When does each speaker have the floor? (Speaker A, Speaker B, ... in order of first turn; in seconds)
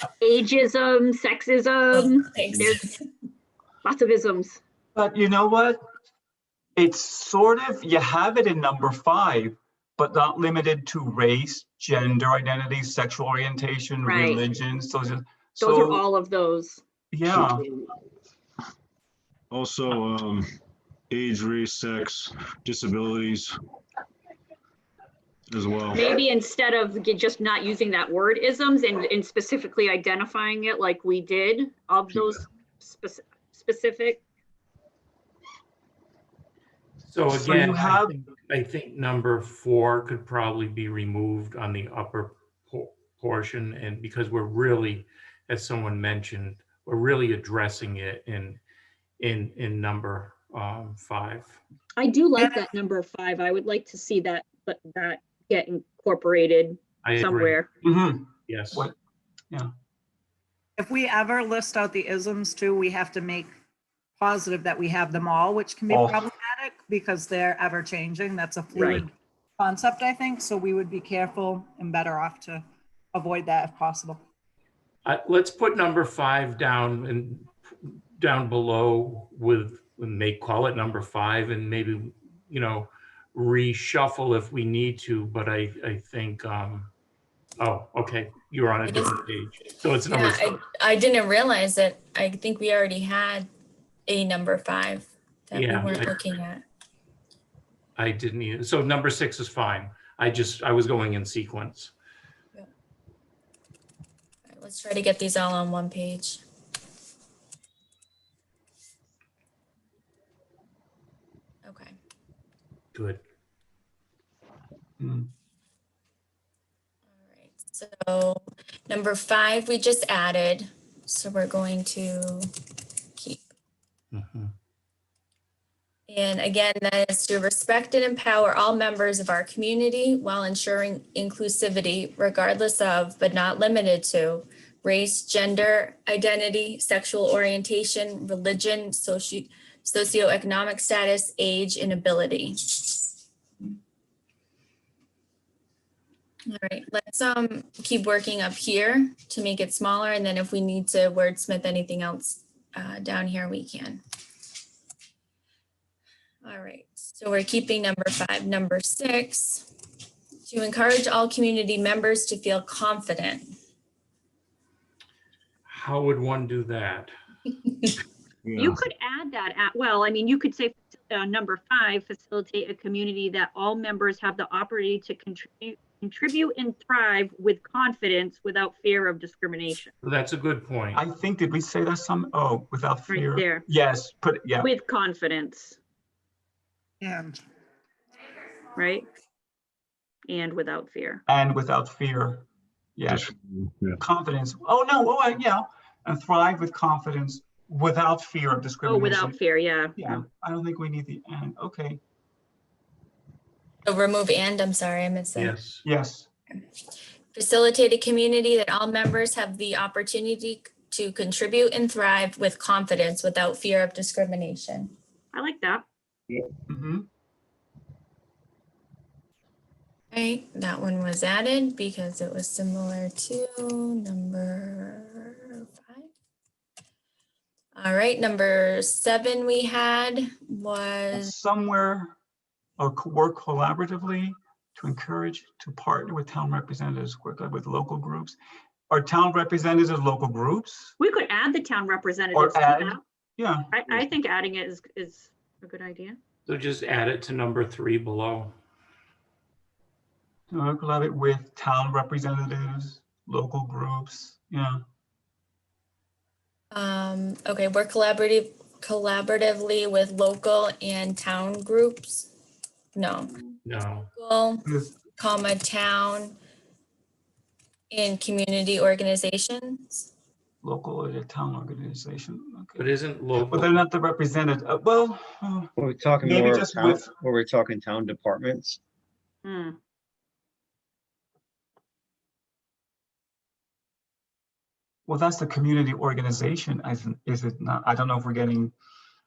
Speaker A: 0.2-2.9, 3.8-4.6, 14.0-14.4, 15.6-16.8, 25.9-34.2, 52.0-57.7, 168.6-179.9, 183.1-183.7, 184.6-185.8, 188.7-189.1, 190.2-191.2, 198.8-199.9, 215.3-215.8, 241.0-243.0, 243.7-246.2, 279.4-279.8
Speaker B: 1.9-2.9, 88.8-89.2, 90.1-93.5, 94.1-96.6, 104.5-106.4, 111.6-112.0, 117.1-122.5, 123.2-123.5, 126.1-143.0, 146.5-154.0, 156.4-159.7, 160.5-163.5, 203.8-205.5, 207.3-214.9, 220.1-226.1, 227.8-231.3, 256.7-262.3, 262.9-263.4, 264.1-266.4, 267.9-270.1
Speaker C: 4.9-5.8, 6.8-16.1, 17.1-17.6, 37.3-38.1, 57.8-58.9, 65.9-66.3, 115.0-115.3, 180.9-184.7, 191.3-193.3, 194.0-199.4, 199.9-202.0, 205.8-206.3, 216.7-217.1, 231.1-232.2, 232.8-238.4, 238.9-240.9, 242.3-243.7, 250.5-254.8, 264.6-264.9, 270.6-272.9, 273.4-277.1, 285.1-288.7
Speaker D: 17.2-17.8, 19.5-20.5, 21.1-23.5, 25.5-26.1, 168.4-168.8, 193.1-194.0
Speaker E: 37.0-48.6, 49.2-51.6, 57.0-57.6, 58.5-58.9, 75.0-86.9, 87.6-90.6, 95.5-96.2, 98.0-101.9, 112.9-113.2, 124.1-124.5, 165.7-167.1, 180.0-181.0, 205.3-205.8, 246.4-248.5, 263.6-264.1, 272.8-273.9
Speaker F: 52.4-52.7, 60.8-63.5, 64.2-74.2, 187.0-187.4
Speaker G: 275.8-278.8